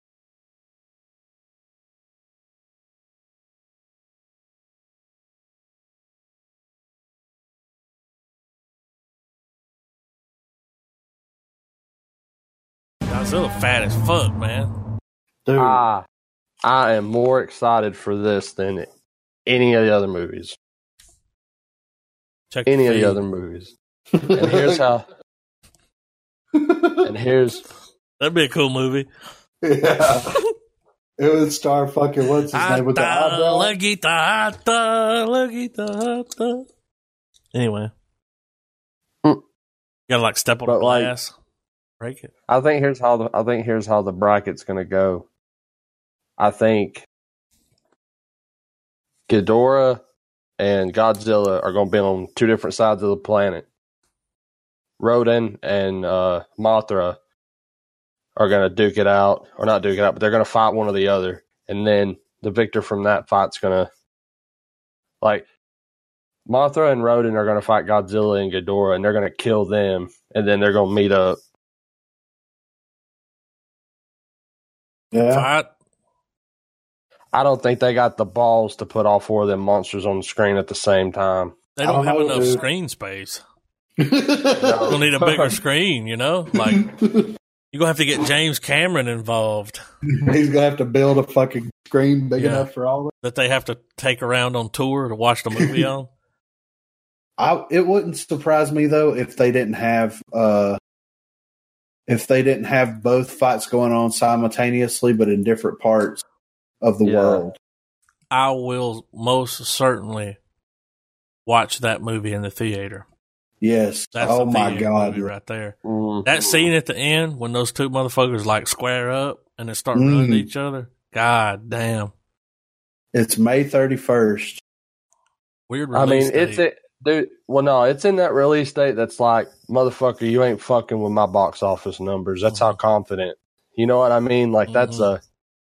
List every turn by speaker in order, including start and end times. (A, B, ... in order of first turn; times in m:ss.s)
0:13.1-0:14.7 A
0:15.4-0:15.8 B
0:15.6-0:16.0 C
0:16.6-0:18.9 C
0:19.4-0:20.6 C
0:22.5-0:23.2 A
0:22.7-0:23.7 C
0:24.1-0:24.8 B
0:24.4-0:25.0 C
0:26.5-0:27.1 B
0:27.0-0:27.6 C
0:28.2-0:29.1 A
0:29.6-0:30.4 B
0:31.2-0:33.7 B
0:32.5-0:36.6 A
0:37.5-0:37.9 A
0:40.1-0:41.3 A
0:40.6-0:41.1 C
0:42.0-0:42.3 A
0:42.5-0:45.3 C
0:46.4-0:47.0 C
0:49.3-0:50.0 C
0:50.6-0:53.7 C
0:55.0-0:57.2 C
0:58.4-1:03.9 C
1:05.2-1:05.4 C
1:06.4-1:11.4 C
1:15.1-1:15.5 B
1:15.3-1:15.7 A
1:17.3-1:21.6 C
1:21.7-1:23.4 A
1:21.8-1:22.6 B
1:24.0-1:25.0 B
1:24.6-1:25.5 C
1:24.9-1:26.8 A
1:26.6-1:27.3 B
1:27.7-1:29.8 A
1:30.1-1:33.1 B
1:32.4-1:32.7 A
1:33.2-1:36.1 A
1:35.5-1:35.9 B
1:37.4-1:40.8 B
1:42.1-1:46.2 B
1:46.8-1:47.5 B
1:47.0-1:47.4 C
1:48.3-1:50.4 A
1:51.4-1:53.0 A
1:53.6-1:55.3 B
1:54.1-2:02.1 A
1:55.8-1:56.7 C
1:59.9-2:00.5 B
2:03.1-2:04.6 B
2:05.7-2:06.6 A
2:05.9-2:15.2 C
2:12.5-2:12.8 A
2:14.7-2:15.1 A